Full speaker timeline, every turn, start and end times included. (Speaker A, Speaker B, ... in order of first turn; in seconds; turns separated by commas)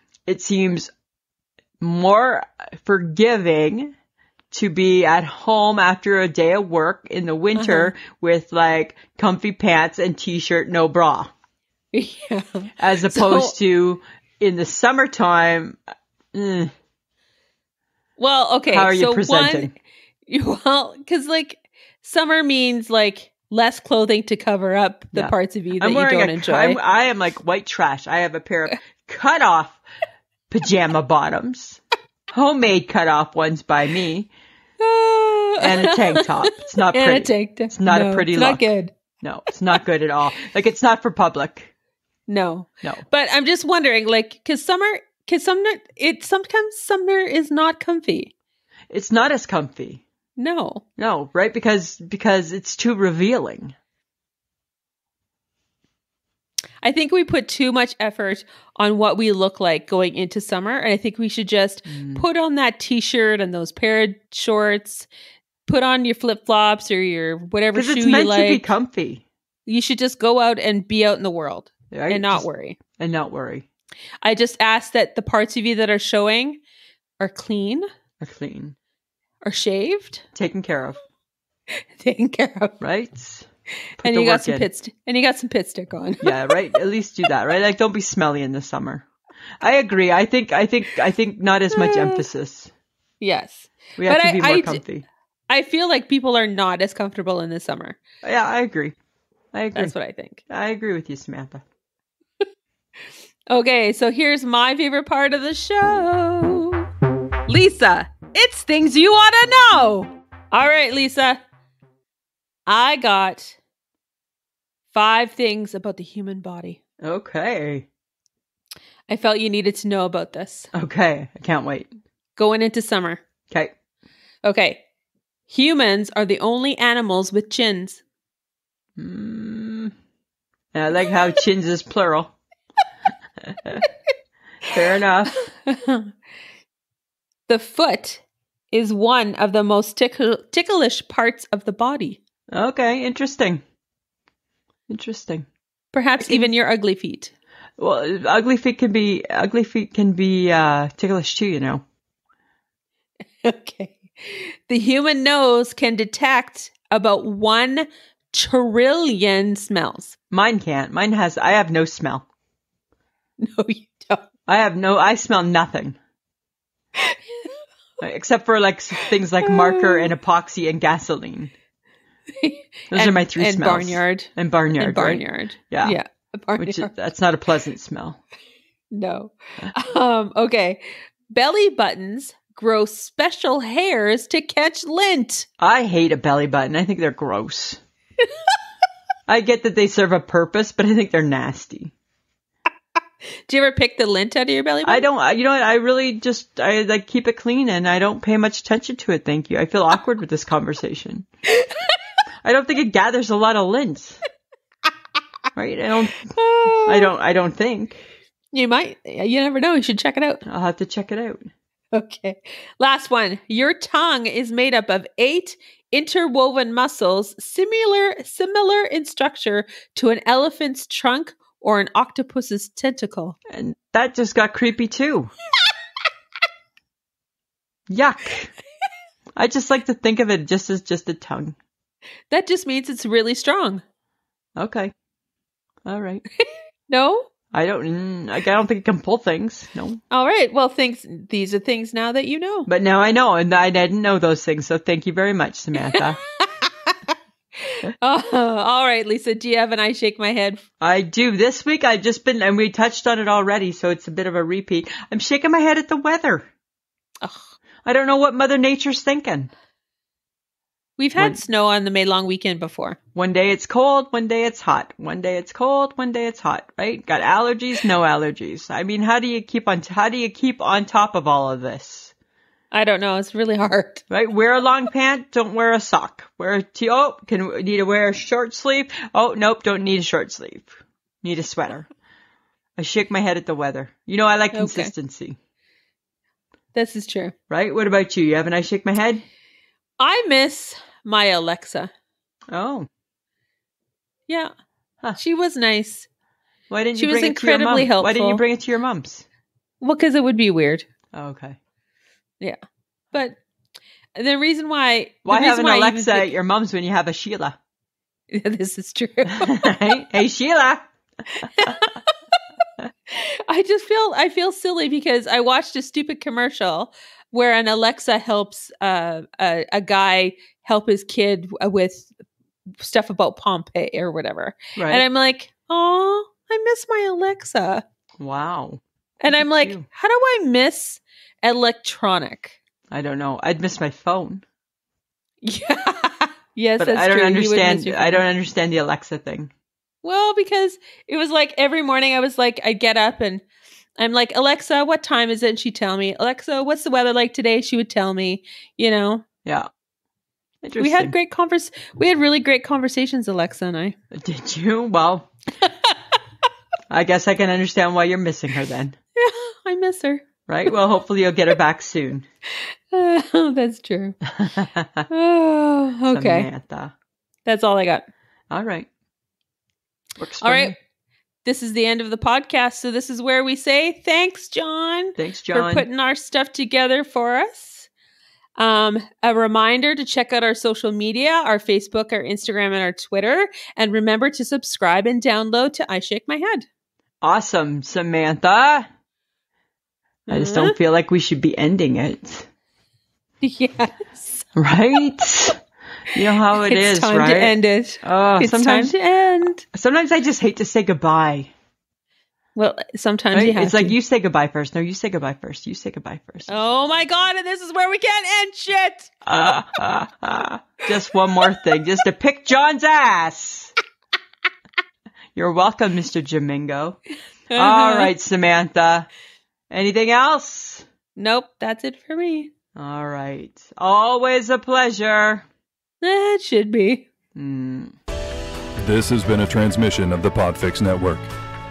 Speaker A: 0.3-0.9, Speaker A: 1.8-3.9, Speaker A: 4.5-11.3, Speaker B: 7.6-7.9, Speaker B: 11.9-13.5, Speaker A: 12.8-15.8, Speaker A: 16.3-16.7, Speaker B: 18.2-19.7, Speaker A: 18.7-19.7, Speaker B: 20.3-26.8, Speaker A: 25.1-29.8, Speaker A: 30.5-34.3, Speaker B: 34.8-38.9, Speaker A: 35.6-38.7, Speaker A: 39.2-41.7, Speaker B: 42.3-48.3, Speaker A: 48.9-50.0, Speaker B: 50.4-50.8, Speaker A: 51.0-53.8, Speaker B: 56.8-65.1, Speaker A: 61.9-62.3, Speaker B: 65.7-68.7, Speaker A: 67.7-69.2, Speaker B: 69.7-72.8, Speaker A: 71.9-73.7, Speaker B: 74.2-76.6, Speaker B: 77.2-77.9, Speaker A: 78.2-78.8, Speaker B: 79.4-80.3, Speaker A: 80.3-81.0, Speaker B: 81.7-82.8, Speaker A: 82.8-83.5, Speaker B: 84.0-86.6, Speaker A: 84.0-84.7, Speaker A: 86.2-89.0, Speaker A: 89.6-92.7, Speaker B: 91.7-92.2, Speaker B: 93.2-94.8, Speaker A: 94.0-95.1, Speaker B: 95.5-98.0, Speaker A: 98.2-99.0, Speaker A: 99.5-99.9, Speaker B: 99.8-100.4, Speaker A: 100.5-101.6, Speaker B: 103.5-106.9, Speaker B: 107.5-111.4, Speaker B: 112.7-113.6, Speaker B: 114.9-116.8, Speaker A: 117.0-117.9, Speaker B: 119.1-120.7, Speaker A: 120.7-121.9, Speaker B: 122.4-123.2, Speaker B: 124.4-124.8, Speaker B: 125.5-128.0, Speaker A: 129.0-129.9, Speaker A: 130.7-132.3, Speaker A: 133.4-133.8, Speaker A: 134.7-135.3, Speaker B: 135.5-136.1, Speaker B: 137.5-142.2, Speaker A: 142.5-143.6, Speaker A: 144.9-145.5, Speaker B: 145.9-147.3, Speaker A: 146.2-146.5, Speaker A: 147.8-151.8, Speaker B: 153.4-160.2, Speaker A: 160.3-162.3, Speaker B: 163.4-164.3, Speaker A: 164.5-166.0, Speaker B: 167.0-167.6, Speaker A: 168.0-171.5, Speaker B: 169.0-170.1, Speaker B: 172.3-176.9, Speaker A: 172.9-176.0, Speaker A: 176.6-178.2, Speaker B: 178.9-185.5, Speaker A: 185.6-187.8, Speaker A: 189.3-191.9, Speaker B: 193.5-195.1, Speaker A: 194.8-201.3, Speaker B: 201.5-202.0, Speaker A: 202.4-204.2, Speaker A: 205.6-206.3, Speaker B: 206.3-207.1, Speaker A: 206.8-208.1, Speaker B: 208.5-210.4, Speaker A: 210.5-211.5, Speaker B: 211.9-223.4, Speaker A: 223.5-225.3, Speaker A: 227.9-228.5, Speaker A: 229.4-231.6, Speaker B: 232.3-233.8, Speaker A: 234.6-234.9, Speaker A: 235.8-236.2, Speaker B: 236.4-237.3, Speaker A: 237.5-240.0, Speaker B: 240.1-242.7, Speaker A: 242.7-246.2, Speaker B: 245.8-250.6, Speaker A: 250.8-256.5, Speaker B: 257.2-257.5, Speaker A: 257.9-259.5, Speaker B: 261.0-263.0, Speaker A: 263.1-272.1, Speaker B: 272.7-274.0, Speaker A: 274.1-281.9, Speaker A: 282.8-285.4, Speaker B: 284.5-284.9, Speaker B: 286.8-287.3, Speaker A: 287.5-289.2, Speaker B: 290.0-291.9, Speaker A: 292.5-292.9, Speaker B: 295.2-296.1, Speaker A: 296.7-299.2, Speaker B: 297.0-298.4, Speaker B: 299.8-300.9, Speaker A: 301.1-301.6, Speaker B: 303.1-303.4, Speaker B: 304.1-306.3, Speaker A: 305.2-307.6, Speaker B: 308.3-309.7, Speaker A: 309.3-310.9, Speaker B: 311.4-312.1, Speaker A: 311.4-311.8, Speaker B: 313.1-322.2, Speaker B: 322.8-327.8, Speaker A: 324.8-325.0, Speaker A: 328.2-329.9, Speaker B: 329.2-332.6, Speaker A: 332.9-334.4, Speaker B: 335.4-338.2, Speaker A: 336.8-339.5, Speaker B: 340.0-343.4, Speaker B: 344.0-349.2, Speaker A: 350.6-351.1, Speaker B: 350.8-354.0, Speaker A: 354.1-355.3, Speaker B: 355.6-356.0, Speaker A: 356.9-359.0, Speaker B: 359.2-360.3, Speaker A: 360.5-362.3, Speaker B: 362.9-364.2, Speaker A: 364.3-365.1, Speaker B: 365.1-366.5, Speaker A: 366.1-366.9, Speaker B: 367.5-368.1, Speaker A: 368.5-368.9, Speaker A: 370.2-370.8, Speaker B: 370.4-370.8, Speaker B: 371.4-377.9, Speaker A: 375.2-375.9, Speaker B: 378.6-386.7, Speaker A: 387.2-388.9, Speaker A: 390.3-392.5, Speaker B: 390.3-390.8, Speaker B: 393.4-394.5, Speaker A: 394.6-395.6, Speaker A: 396.1-398.9, Speaker B: 396.2-399.6, Speaker A: 399.7-401.5, Speaker B: 402.6-404.0, Speaker A: 403.3-406.6, Speaker B: 406.5-409.1, Speaker A: 409.2-413.7, Speaker A: 415.4-417.0, Speaker B: 417.6-418.1, Speaker A: 417.6-419.1, Speaker A: 419.7-420.9, Speaker B: 421.2-422.5, Speaker A: 422.8-425.5, Speaker B: 426.0-427.1, Speaker A: 427.4-428.0, Speaker C: 428.8-431.3